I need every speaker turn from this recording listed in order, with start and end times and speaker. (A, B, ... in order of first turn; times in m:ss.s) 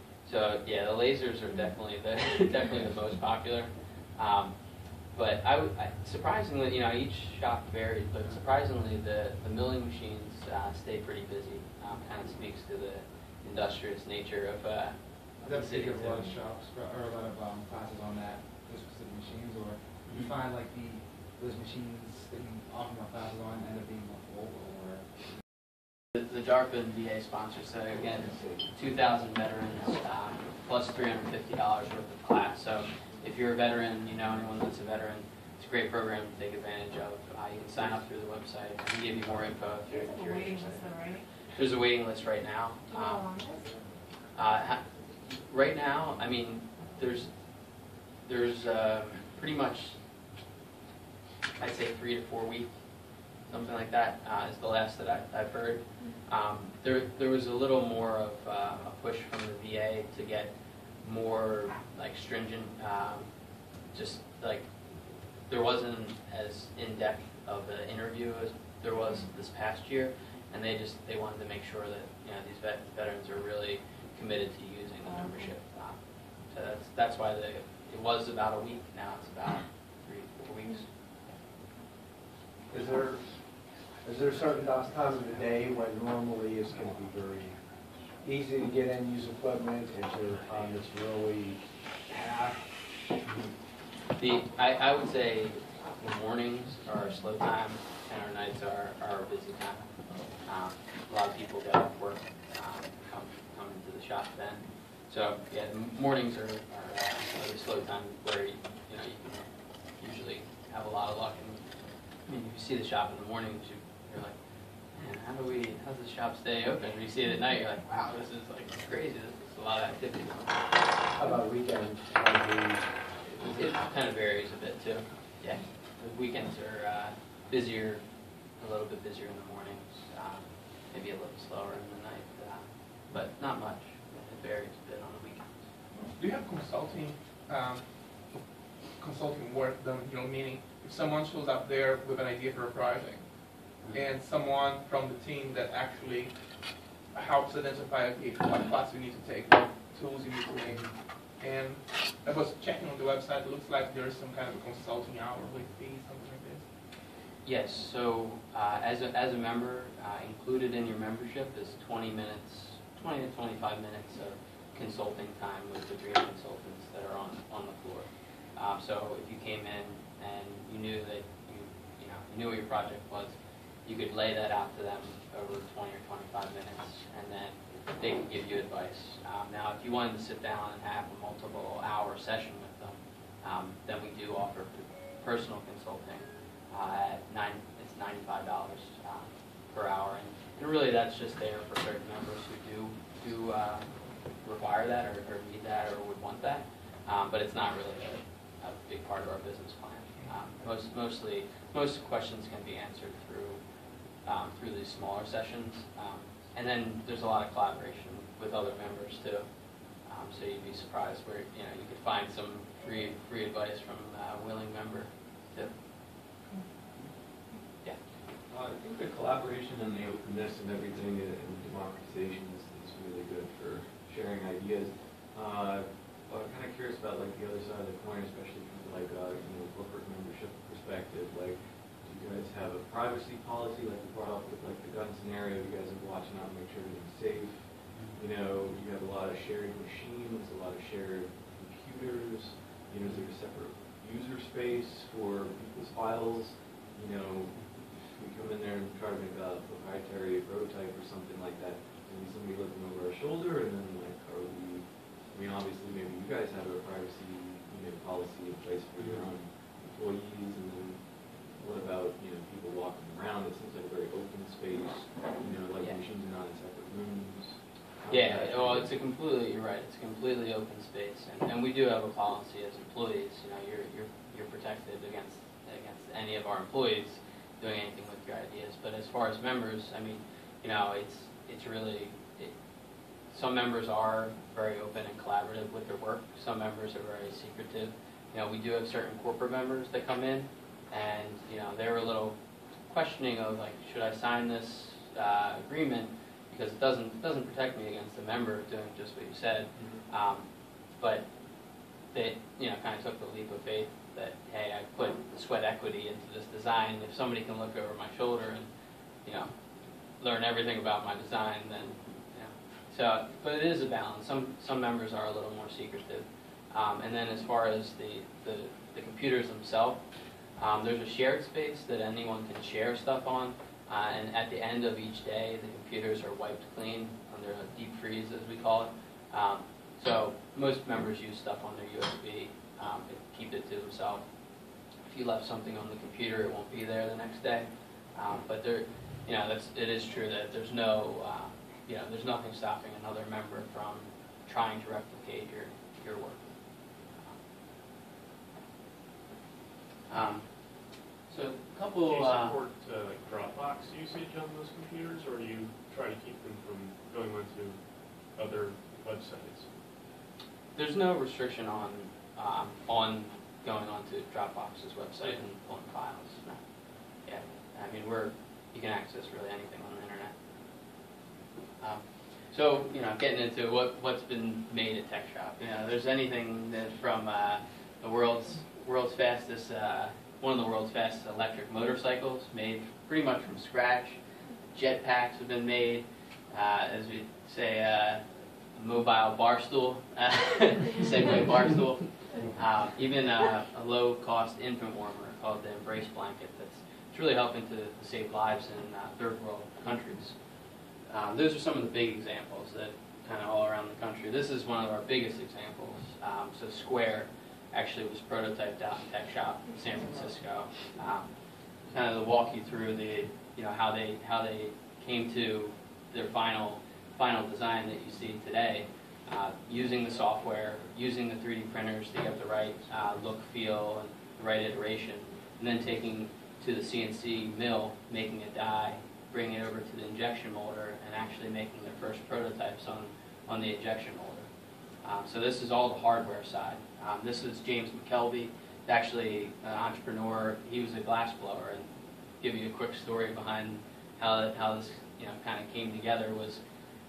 0:00.2-0:16.4 A
0:15.4-0:25.1 B
0:26.1-0:40.9 A
0:39.8-0:41.2 C
0:41.5-0:43.3 A
0:42.9-0:43.7 C
0:44.3-0:47.3 A
0:48.2-0:50.0 A
0:51.6-0:52.7 A
0:53.4-1:03.3 A
1:03.9-1:04.7 A
1:05.5-1:20.9 A
1:15.0-1:15.5 C
1:22.7-1:23.4 D
1:24.0-1:27.6 D
1:28.2-1:32.6 D
1:34.2-1:39.8 A
1:40.4-1:51.6 A
1:52.2-1:54.4 A
1:54.9-2:00.6 A
2:01.2-2:02.8 D
2:03.3-2:08.0 A
2:08.6-2:15.7 A
2:16.0-2:36.7 E
2:23.8-2:24.0 A
2:37.4-3:23.6 A
3:20.2-3:20.4 E
3:24.2-3:29.4 A
3:30.0-3:35.7 A
3:38.5-4:28.9 F
4:19.0-4:19.3 A
4:28.1-4:42.5 A
4:43.3-4:52.4 A
4:52.9-5:01.3 A
4:59.7-5:00.0 F
5:02.1-5:08.7 A
5:09.2-5:09.5 A
5:10.2-5:20.0 A
5:20.6-5:34.2 A
5:35.0-5:46.5 A
5:50.1-5:50.5 A
5:51.3-5:52.6 A
5:52.0-5:59.7 G
6:00.7-6:06.6 A
6:07.2-6:10.3 A
6:11.8-6:24.2 A
6:24.7-6:40.4 A
6:41.1-6:51.3 A
6:51.9-7:14.5 A
7:15.0-7:26.6 A